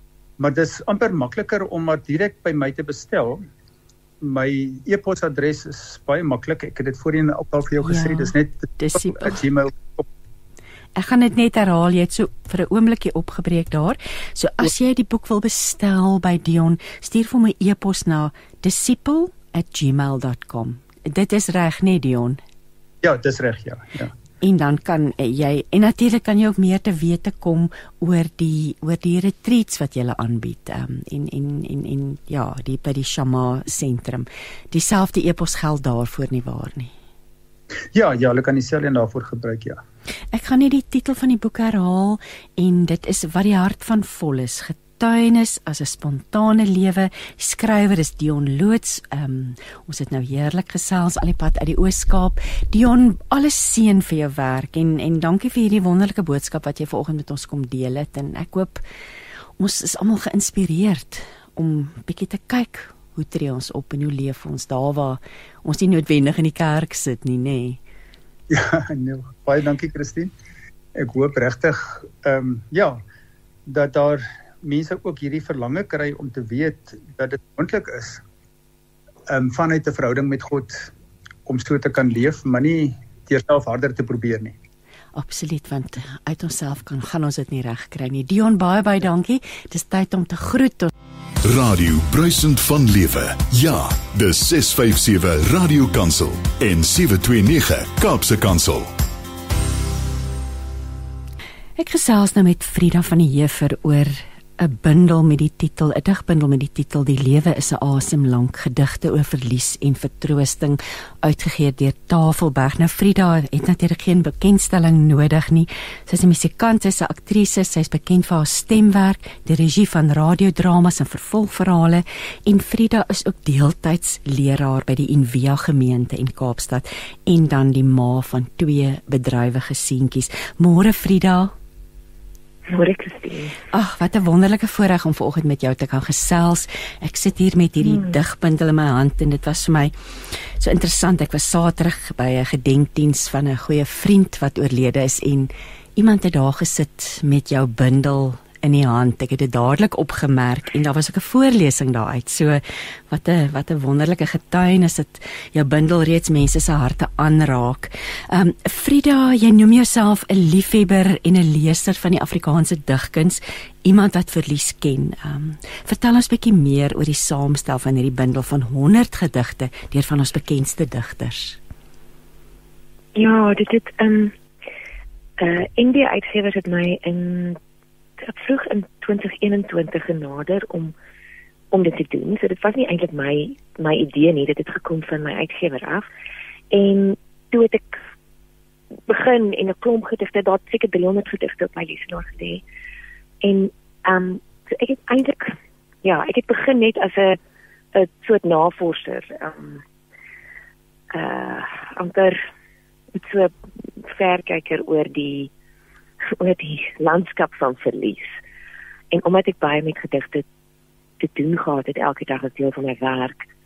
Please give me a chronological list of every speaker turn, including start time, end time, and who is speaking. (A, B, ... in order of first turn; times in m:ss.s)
0:00.4-0:03.4 A
0:04.2-0:10.1 A
0:07.8-0:09.4 B
0:11.0-0:22.4 B
0:23.0-0:24.1 A
0:24.4-0:36.9 B
0:37.9-0:39.8 A
0:40.3-0:58.8 B
0:59.6-1:07.8 B
1:08.5-1:10.3 A
1:11.0-1:13.0 A
1:13.7-1:18.2 A
1:19.3-1:20.9 A
1:21.4-1:24.6 A
1:25.1-1:30.9 B
1:31.4-1:38.9 C
1:41.8-2:11.5 B
2:12.7-2:13.6 D
2:13.7-2:51.6 B
2:17.8-2:18.1 D
2:53.1-2:54.4 D
2:55.4-2:57.6 D
2:58.2-3:00.9 D
3:01.7-3:06.1 D
3:06.7-3:08.0 D
3:09.1-3:12.6 D
3:13.4-3:17.4 D
3:17.9-3:19.8 D
3:21.1-3:22.4 D
3:23.1-3:25.5 D
3:26.4-3:28.4 D
3:29.1-3:30.4 D
3:31.2-3:33.4 D